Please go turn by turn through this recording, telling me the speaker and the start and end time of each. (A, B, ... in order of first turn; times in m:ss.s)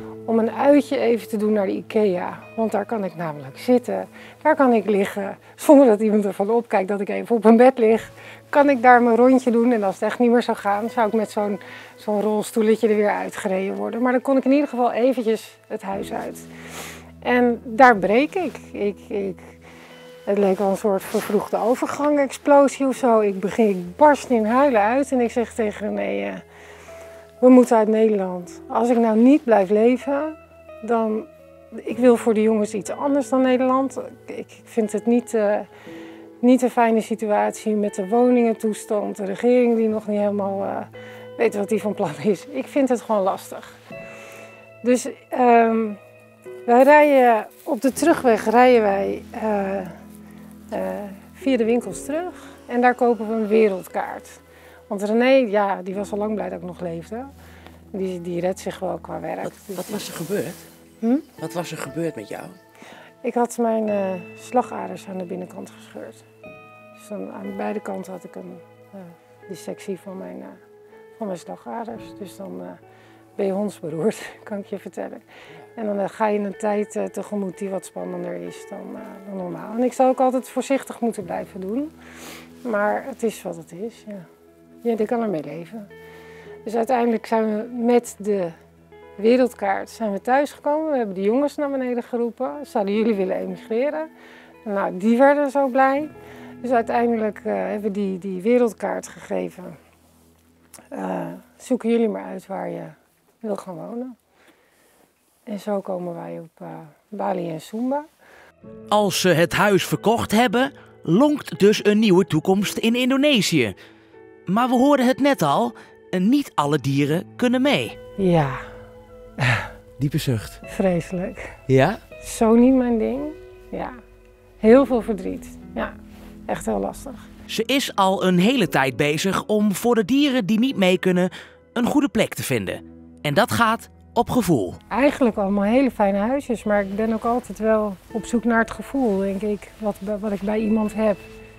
0:00.3-0:16.5 A
0:17.2-0:19.6 A
0:20.3-0:26.4 A
0:27.4-0:35.7 A
0:36.4-0:43.8 A
0:44.8-0:46.0 A
0:46.6-0:50.0 A
0:50.7-0:54.4 A
0:54.9-0:57.3 A
0:57.9-1:00.0 A
0:59.4-1:00.7 B
1:01.0-1:01.3 A
1:01.4-1:02.6 B
1:03.2-1:06.2 A
1:07.0-1:10.6 A
1:11.2-1:12.8 A
1:13.4-1:21.9 A
1:22.6-1:24.3 A
1:24.8-1:25.9 A
1:26.6-1:28.6 A
1:29.2-1:34.1 A
1:34.6-1:39.8 A
1:40.9-1:44.2 A
1:45.5-1:48.1 A
1:48.9-1:53.8 C
1:54.5-1:58.0 C
1:58.2-1:58.6 A
1:59.4-1:59.7 A
2:00.0-2:00.6 B
2:00.7-2:01.6 A
2:01.7-2:02.0 B
2:02.2-2:04.0 A
2:04.6-2:05.9 A
2:06.5-2:07.3 A
2:07.5-2:14.8 C
2:14.9-2:21.2 A